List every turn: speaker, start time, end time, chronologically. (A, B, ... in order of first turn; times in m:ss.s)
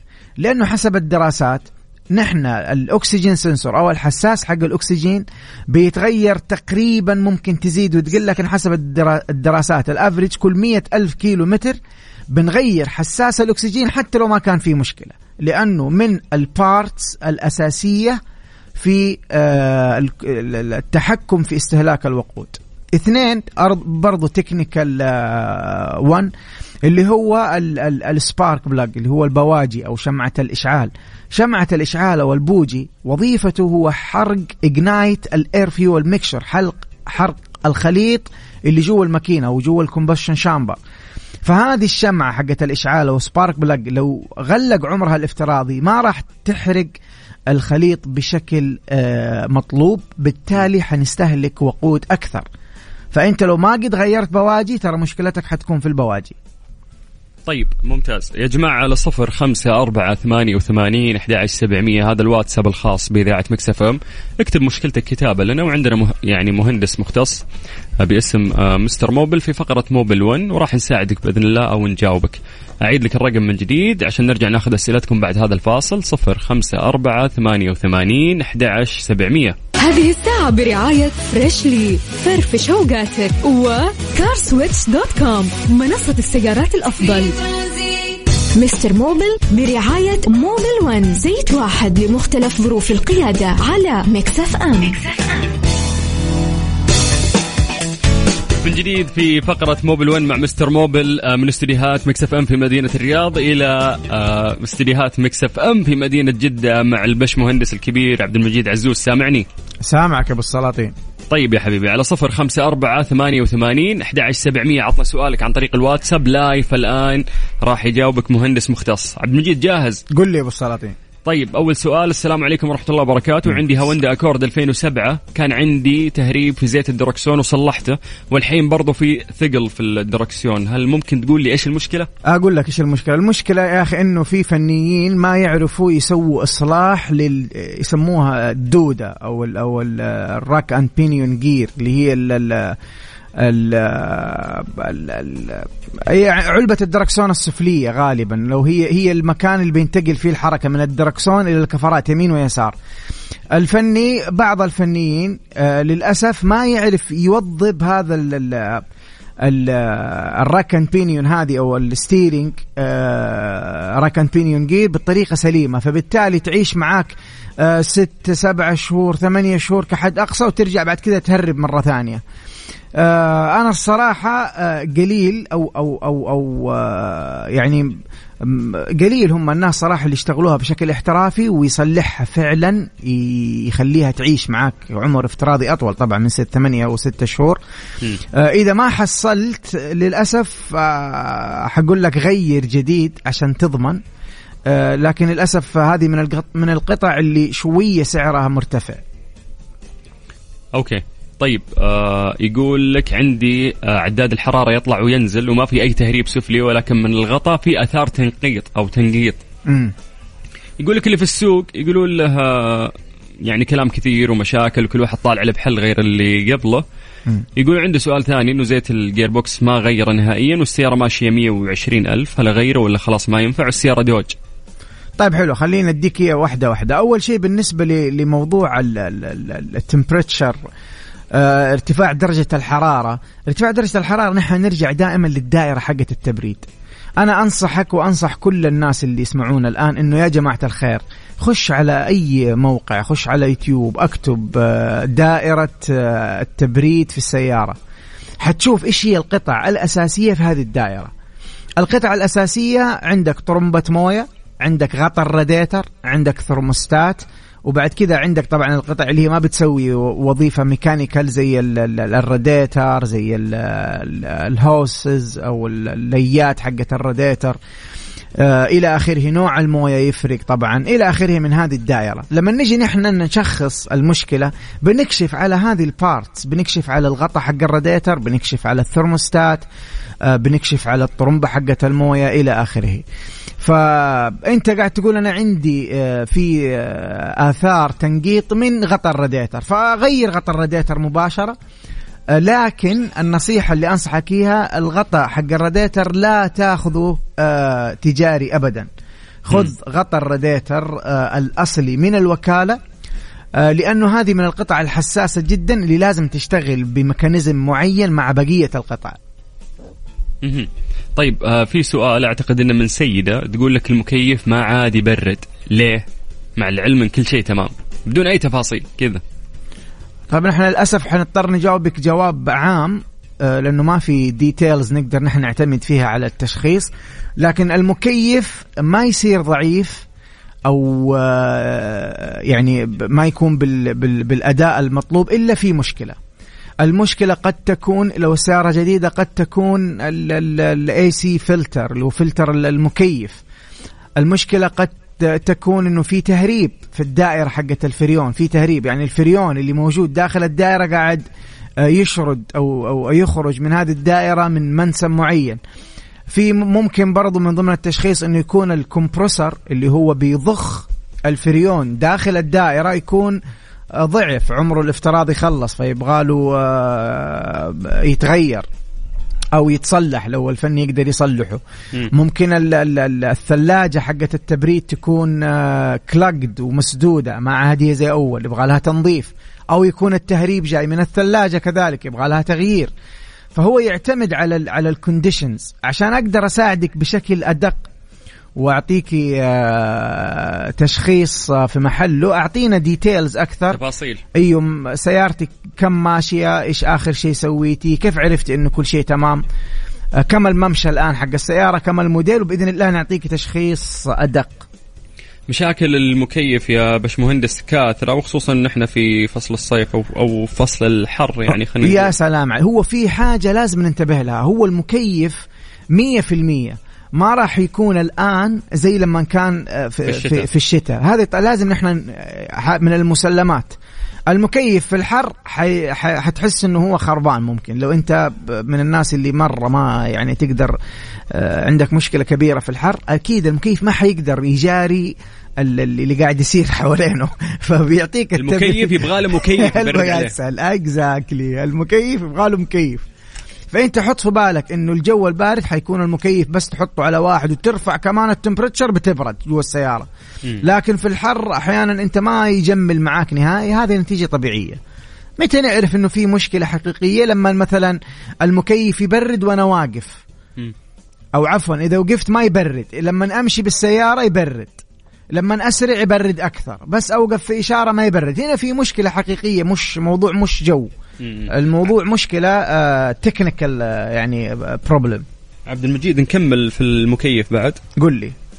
0:00.4-0:11.8 A
0:12.3-0:18.2 A
0:18.8-0:26.3 A
0:26.9-0:40.8 A
0:41.4-0:46.9 A
0:47.5-0:52.5 A
0:53.1-0:56.4 A
0:57.5-1:07.4 B
1:08.0-1:19.6 B
1:19.8-1:27.5 C
1:28.6-1:35.1 C
1:38.6-1:49.5 B
1:49.8-1:51.0 A
1:51.3-2:00.0 B
2:00.1-2:01.0 A
2:01.2-2:12.1 B
2:12.3-2:22.8 A
2:23.4-2:32.8 A
2:33.5-2:38.8 A
2:39.4-2:52.2 A
2:53.0-3:07.6 A
3:08.3-3:14.0 A
3:14.7-3:19.0 A
3:20.8-3:29.4 B
3:29.7-3:29.9 A
3:30.8-3:36.8 B
3:37.6-3:44.4 B
3:45.2-3:50.6 A
3:51.3-3:56.7 A
3:57.2-4:07.8 A
4:08.4-4:11.1 A
4:11.8-4:27.6 A
4:28.4-4:39.6 A
4:40.2-4:43.0 A
4:43.6-4:51.6 A
4:52.3-4:58.9 A
4:59.4-5:02.8 A
5:03.6-5:09.2 A
5:10.4-5:16.1 B
5:16.6-5:19.2 B
5:20.3-5:30.0 A
5:30.7-5:36.2 A
5:36.8-5:43.4 A
5:44.2-5:51.2 A
5:51.8-5:55.6 A
5:56.3-6:03.4 A
6:04.0-6:08.7 A
6:09.5-6:22.9 A
6:23.6-6:27.8 A
6:28.6-6:33.8 A
6:33.7-6:34.2 B
6:34.3-6:39.4 A
6:40.2-6:44.7 A
6:45.5-6:52.1 B
6:51.5-7:03.8 A
7:00.1-7:00.4 B
7:04.3-7:10.8 A
7:11.3-7:23.1 A
7:18.4-7:20.3 B
7:23.7-7:30.1 A
7:30.6-7:34.8 A
7:35.4-7:40.2 A
7:41.3-7:50.9 A
7:51.2-7:51.5 B
7:51.5-7:55.3 A
7:55.7-7:57.8 B
7:58.0-7:58.4 A